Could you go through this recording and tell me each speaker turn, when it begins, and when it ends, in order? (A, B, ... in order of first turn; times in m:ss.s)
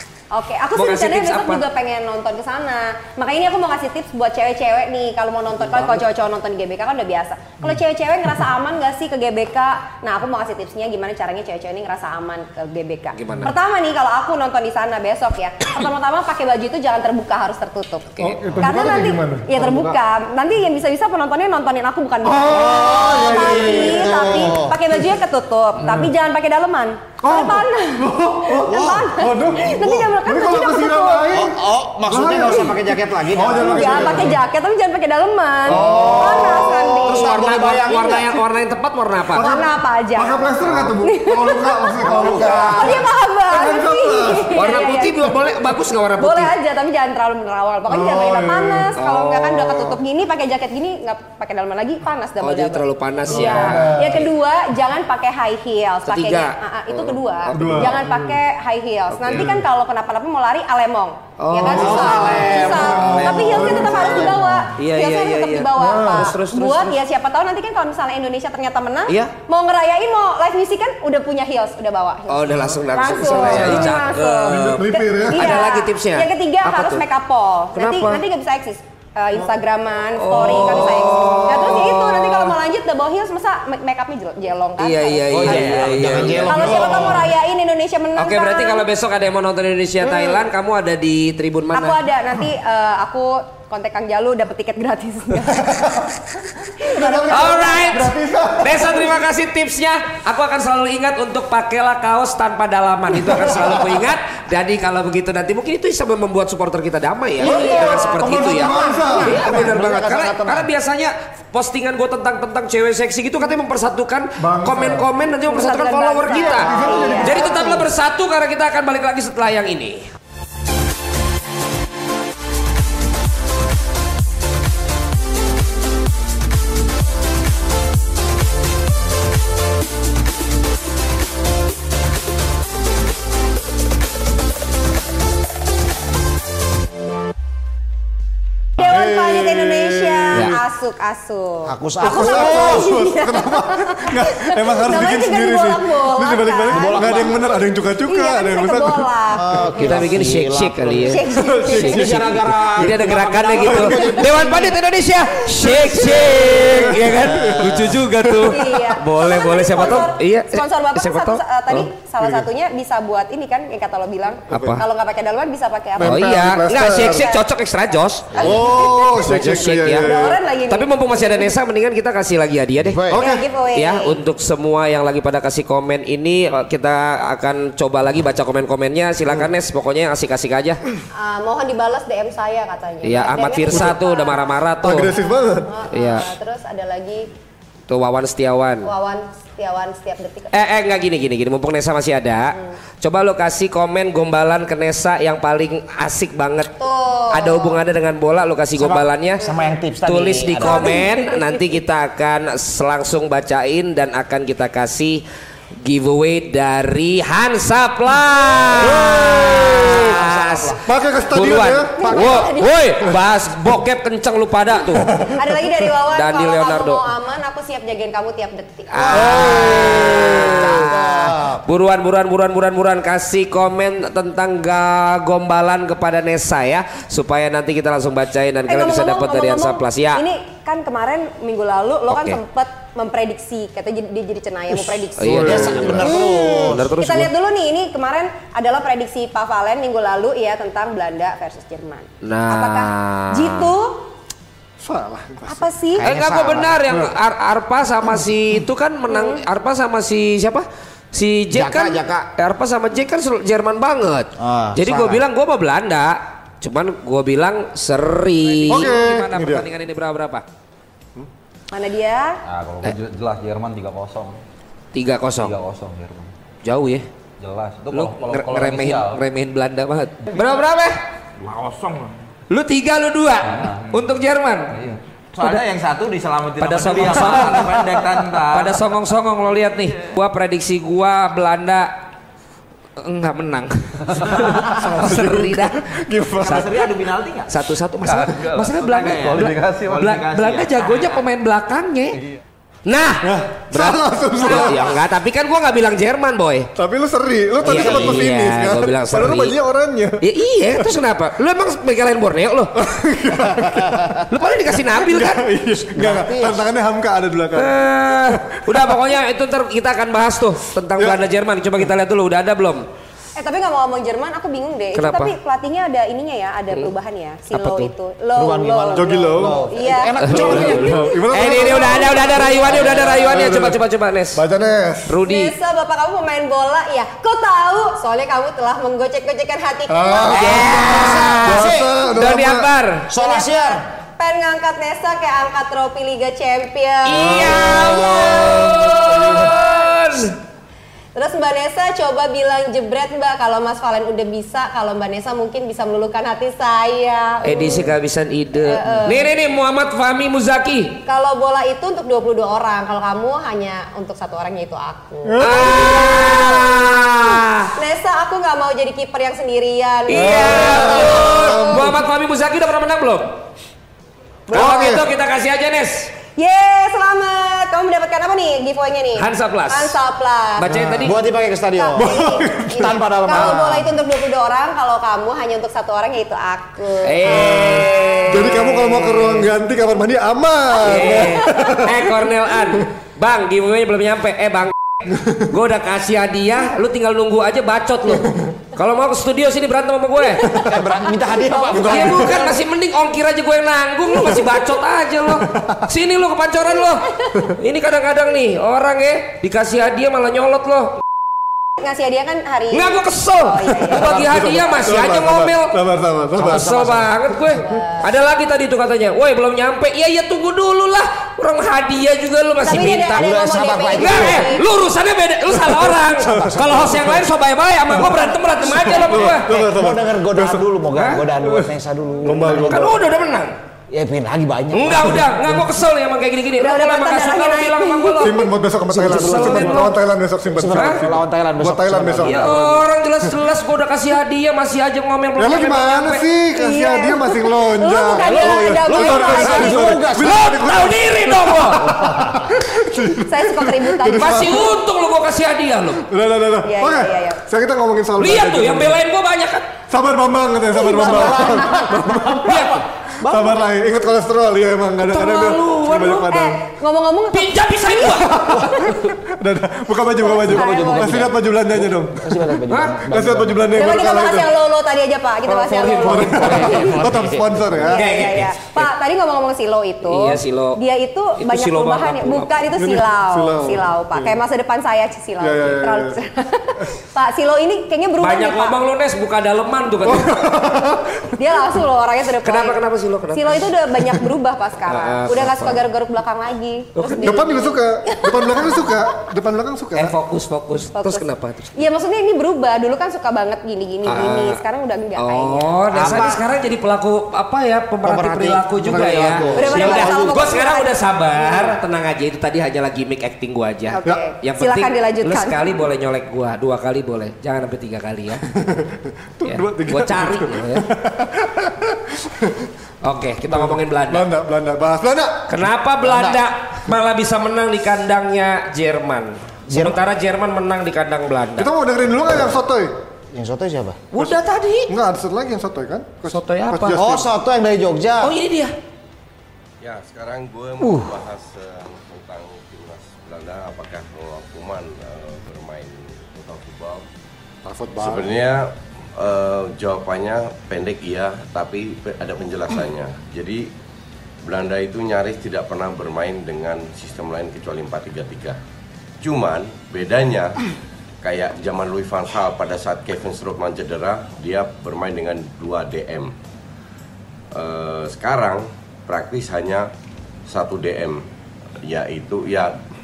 0:00.3-0:31.4 A
0:00.8-0:01.6 B
0:13.2-0:13.5 B
0:18.2-0:20.0 C
0:22.2-0:25.1 C
0:22.5-0:24.8 D
0:25.8-0:26.1 C
0:27.2-0:31.6 C
0:28.7-0:29.0 D
0:29.6-0:30.1 D
0:31.3-0:34.4 D
0:32.1-0:34.4 C
0:32.4-0:32.7 A
0:33.5-0:38.2 A
0:35.7-0:38.3 D
0:35.7-0:37.4 C
0:37.2-0:39.5 B
0:39.3-0:44.8 C
0:39.4-0:45.2 A
0:40.6-0:40.9 B
0:42.0-0:43.0 D
0:44.6-0:46.5 B
0:46.2-1:25.8 A
0:47.9-0:48.9 C
0:49.0-0:50.0 B
0:52.4-0:54.2 B
0:53.3-0:54.3 C
0:56.1-0:58.0 B
0:57.5-0:58.4 C
0:59.2-0:59.6 C
1:01.4-1:03.2 B
1:01.6-1:04.5 D
1:01.6-1:04.7 C
1:03.9-1:07.0 B
1:05.8-1:06.3 C
1:09.1-1:09.3 B
1:12.3-1:17.0 B
1:12.5-1:14.0 C
1:14.5-1:15.6 C
1:17.8-1:18.2 B
1:20.2-1:22.6 B
1:20.6-1:21.5 C
1:24.8-1:27.0 B
1:25.3-1:27.1 D
1:25.5-1:26.5 E
1:26.4-1:28.9 A
1:26.5-1:27.3 C
1:28.2-1:32.0 B
1:30.1-1:30.4 A
1:31.7-1:35.7 A
1:35.5-1:36.1 C
1:36.8-1:37.5 A
1:36.8-1:39.2 C
1:37.3-1:56.7 B
1:43.2-1:44.0 C
1:47.4-1:48.0 D
1:47.4-1:49.7 C
1:47.4-1:49.6 A
1:49.3-1:50.7 D
1:54.4-1:55.0 C
1:55.5-1:57.8 A
1:56.3-1:57.8 C
1:57.2-2:00.1 B
2:18.8-2:27.4 A
2:18.8-2:20.6 C
2:21.7-2:22.9 D
2:22.0-2:29.0 C
2:26.7-2:27.4 D
2:28.1-2:29.7 A
2:29.3-2:31.2 D
2:29.8-2:41.9 B
2:31.1-2:32.1 A
2:31.3-2:34.2 C
2:31.7-2:34.2 D
2:34.0-2:34.8 A
2:35.6-2:38.5 C
2:37.3-2:37.6 D
2:38.4-2:46.3 A
2:42.2-2:42.5 C
2:44.5-2:44.8 C
2:44.5-2:44.8 B
2:46.0-2:47.3 C
2:46.0-2:48.6 B
2:47.1-2:47.4 A
2:48.3-2:48.9 D
2:48.3-2:51.5 A
2:48.4-2:50.4 C
2:49.2-2:53.0 B
2:52.8-2:53.2 D
2:53.1-2:53.4 C
2:53.1-2:54.2 A
2:53.8-3:00.8 B
3:01.2-3:04.5 A
3:03.0-3:05.1 B
3:04.8-3:05.8 C
3:05.2-3:07.3 A
3:05.9-3:06.3 B
3:07.9-3:08.9 B
3:08.8-3:10.6 A
3:10.5-3:16.8 B
3:16.8-3:17.8 A
3:17.3-3:19.4 B
3:18.8-3:21.0 D
3:20.0-3:25.2 B
3:20.6-3:21.6 A
3:25.8-3:30.8 B
3:28.7-3:30.8 D
3:28.8-3:30.1 C
3:30.9-3:32.0 C
3:31.3-3:35.1 B
3:32.0-3:32.8 A
3:32.0-3:32.4 D
3:34.9-3:35.7 C
3:35.3-3:39.3 A
3:36.1-3:37.0 B
3:38.9-3:50.2 B
3:39.0-3:41.6 D
3:39.2-3:40.2 C
3:48.7-4:04.1 A
3:52.1-3:52.4 B
3:55.2-3:57.3 B
3:55.2-3:56.9 D
4:02.2-4:03.7 B
4:04.8-4:05.7 C
4:05.5-4:06.1 A
4:06.0-4:06.8 D
4:06.0-4:20.4 B
4:09.1-4:09.4 A
4:11.5-4:12.3 D
4:14.4-4:15.2 D
4:18.7-4:19.7 C
4:21.7-4:22.4 A
4:22.4-4:24.4 E
4:24.9-4:25.6 B
4:25.4-4:26.3 E
4:26.6-4:27.1 B
4:27.4-4:29.2 E
4:27.9-4:31.0 B
4:31.4-4:32.2 E
4:32.5-4:34.8 B
4:33.5-4:34.0 E
4:34.7-4:39.0 E
4:36.6-4:38.0 B
4:38.5-4:41.9 B
4:43.0-4:46.7 B
4:44.2-4:44.8 E
4:44.6-4:46.8 C
4:46.4-4:51.2 E
4:47.5-4:52.2 B
4:52.9-4:56.7 B
4:53.2-4:55.0 C
4:56.8-5:00.2 C
4:57.6-4:58.3 D
4:57.6-4:59.6 B
5:00.2-5:02.7 B
5:02.8-5:04.2 C
5:04.3-5:05.4 B
5:04.9-5:08.9 C
5:05.9-5:06.6 D
5:07.6-5:12.8 B
5:13.4-5:21.0 A
5:15.0-5:15.3 B
5:17.5-5:17.9 B
5:18.4-5:21.0 D
5:19.0-5:19.6 C
5:20.2-5:24.4 B
5:20.4-5:23.8 C
5:21.5-5:23.1 A
5:24.4-5:25.2 C
5:25.1-5:25.5 B
5:25.2-5:30.6 A
5:29.9-5:32.7 C
5:30.3-5:32.0 D
5:30.3-5:33.1 B
5:33.1-5:33.8 D
5:33.1-5:39.9 A
5:37.1-5:40.4 B
5:37.1-5:37.8 C
5:39.0-5:39.6 C
5:41.2-5:47.9 A
5:47.4-5:51.0 B
5:48.6-5:49.3 A
5:51.0-5:57.0 A
5:55.2-5:56.5 C
5:55.4-5:57.7 B
5:57.8-6:01.9 A
6:00.1-6:03.3 B
6:00.1-6:02.0 C
6:04.5-6:05.0 A
6:04.5-6:05.0 C
6:04.5-6:06.1 B
6:06.4-6:10.7 A
6:09.2-6:10.0 B
6:10.6-6:11.2 B
6:10.7-6:11.2 C
6:11.0-6:13.9 D
6:11.7-6:18.6 A
6:12.0-6:13.0 C
6:17.0-6:19.5 B
6:18.3-6:22.8 C
6:20.8-6:24.9 B
6:20.8-6:21.6 A
6:25.5-6:30.5 B
6:30.3-6:30.6 A
6:30.6-6:32.6 D
6:31.3-6:31.9 A
6:31.7-6:32.5 C
6:31.8-6:41.0 B
6:35.4-6:35.8 C
6:41.8-6:44.9 A
6:42.7-6:45.8 B
6:43.8-6:46.7 C
6:46.4-6:47.2 D
6:46.4-6:53.2 B
6:47.6-6:48.1 A
6:52.6-6:54.6 A
6:53.1-6:54.5 D
6:54.0-6:59.4 B
6:55.5-6:57.3 C
6:57.9-7:00.6 C
6:59.2-7:03.1 D
7:00.9-7:01.3 B
7:01.4-7:01.7 C
7:02.2-7:03.0 C
7:02.5-7:03.6 B
7:03.9-7:05.7 D
7:04.7-7:08.5 B
7:06.6-7:08.5 A
7:08.2-7:12.7 C
7:08.9-7:09.9 D
7:09.0-7:10.0 B
7:10.5-7:12.6 D
7:10.7-7:11.0 B
7:12.0-7:16.3 B
7:15.4-7:24.7 C
7:16.6-7:20.0 A
7:18.2-7:20.5 D
7:19.1-7:22.2 B
7:23.2-7:24.6 A
7:24.2-7:26.0 B
7:26.1-7:29.0 C
7:26.6-7:27.4 A
7:28.2-7:29.7 B
7:29.9-7:32.6 C
7:30.7-7:33.7 D
7:32.4-7:32.8 B
7:33.2-7:36.6 C
7:35.0-7:36.3 B
7:36.2-7:39.0 A
7:37.3-7:38.5 B
7:38.1-7:42.6 C
7:40.2-7:41.4 A
7:40.3-7:44.0 D
7:42.7-7:43.0 B
7:43.1-7:44.5 C
7:43.8-7:47.0 A
7:45.5-7:48.0 C
7:45.7-7:48.9 B
7:46.6-7:47.8 D
7:47.9-7:58.8 A
7:50.0-7:50.8 B
7:51.4-7:52.6 B
7:52.8-7:54.4 C
7:55.4-7:56.2 C
7:58.2-8:00.4 B
8:00.0-8:01.4 C
8:01.4-8:02.8 A
8:02.4-8:03.7 B
8:03.3-8:09.0 A
8:04.9-8:05.8 B
8:07.0-8:07.4 B
8:07.2-8:10.1 C
8:10.0-8:11.7 B
8:11.0-8:16.2 A
8:14.1-8:14.6 B
8:15.2-8:28.4 B
8:15.9-8:16.4 D
8:18.0-8:20.6 D
8:18.8-8:19.6 C
8:19.6-8:21.7 A
8:23.9-8:25.8 A
8:28.6-8:32.7 C
8:29.5-8:30.8 B
8:33.0-8:34.3 B
8:33.5-8:35.5 C
8:35.5-8:41.7 B
8:36.0-8:36.4 D
8:39.7-8:40.0 D
8:41.6-8:42.9 C
8:43.3-8:44.1 D
8:44.1-8:44.9 B
8:44.9-8:47.3 C
8:46.3-8:47.1 B
8:46.9-8:48.3 D
8:48.2-8:48.7 B
8:49.8-8:57.1 F
8:50.8-8:51.1 D
8:57.6-8:58.4 C
8:58.0-9:03.7 F
9:04.4-9:08.6 F
9:09.2-9:10.6 F
9:11.2-9:16.3 F
9:17.5-9:19.9 F
9:20.5-9:21.2 F
9:21.8-9:22.8 F